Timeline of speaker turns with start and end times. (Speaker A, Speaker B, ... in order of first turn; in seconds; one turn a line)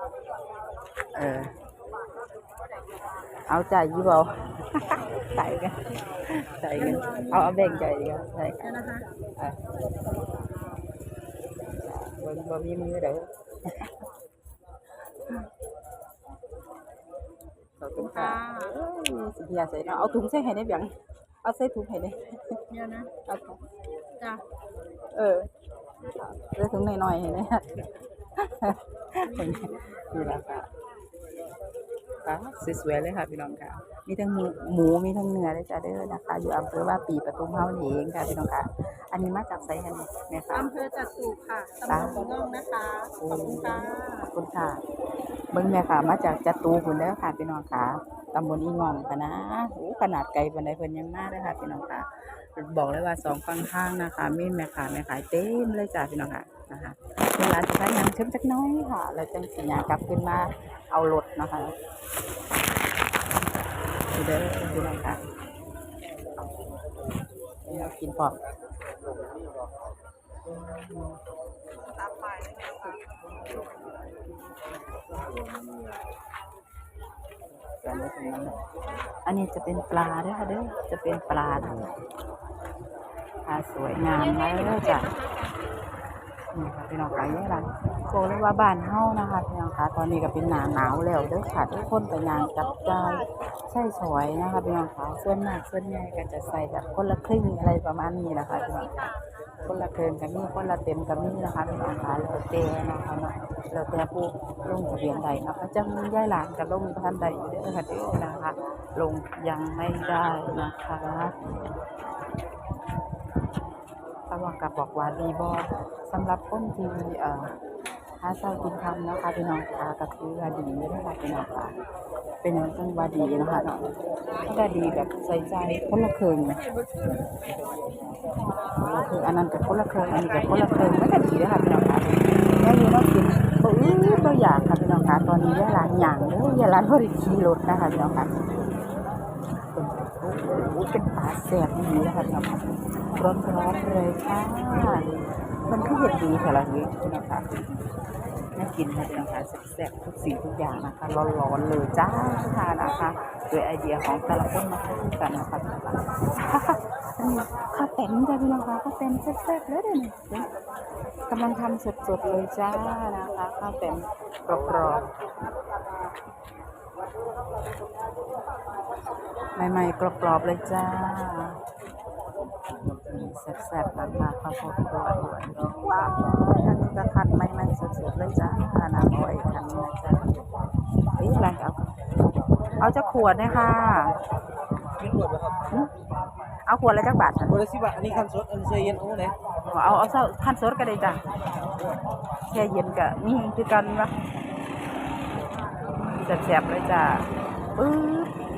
Speaker A: 1.1-1.5
Speaker A: 3.5-8.8
Speaker B: 6.9-7.5
Speaker B: 8.7-9.0
Speaker A: 11.8-13.9
Speaker A: 17.8-22.6
Speaker B: 18.0-18.8
Speaker B: 22.7-23.1
Speaker A: 23.2-23.6
Speaker A: 25.1-25.5
Speaker A: 26.2-27.8
Speaker A: 28.4-30.7
Speaker B: 29.3-29.7
Speaker A: 32.2-40.7
Speaker B: 40.5-44.3
Speaker A: 41.9-42.3
Speaker A: 43.2-44.8
Speaker A: 45.5-61.7
Speaker A: 64.1-65.2
Speaker A: 67.6-68.4
Speaker A: 77.8-78.6
Speaker A: 79.2-81.9
Speaker A: 83.5-85.1
Speaker A: 86.5-99.1
Speaker A: 99.6-111.3
Speaker A: 114.3-117.5
Speaker A: 118.2-121.8
Speaker A: 122.4-123.8
Speaker A: 124.4-126.6
Speaker A: 128.8-138.3
Speaker A: 139.7-147.5
Speaker A: 148.6-160.5
Speaker A: 161.3-165.1
Speaker A: 169.6-171.6
Speaker A: 172.9-180.3
Speaker A: 181.2-182.1
Speaker A: 182.8-184.2
Speaker C: 185.0-185.6
Speaker A: 186.7-187.6
Speaker C: 187.5-189.3
Speaker A: 189.7-191.2
Speaker A: 192.5-194.1
Speaker A: 196.1-198.3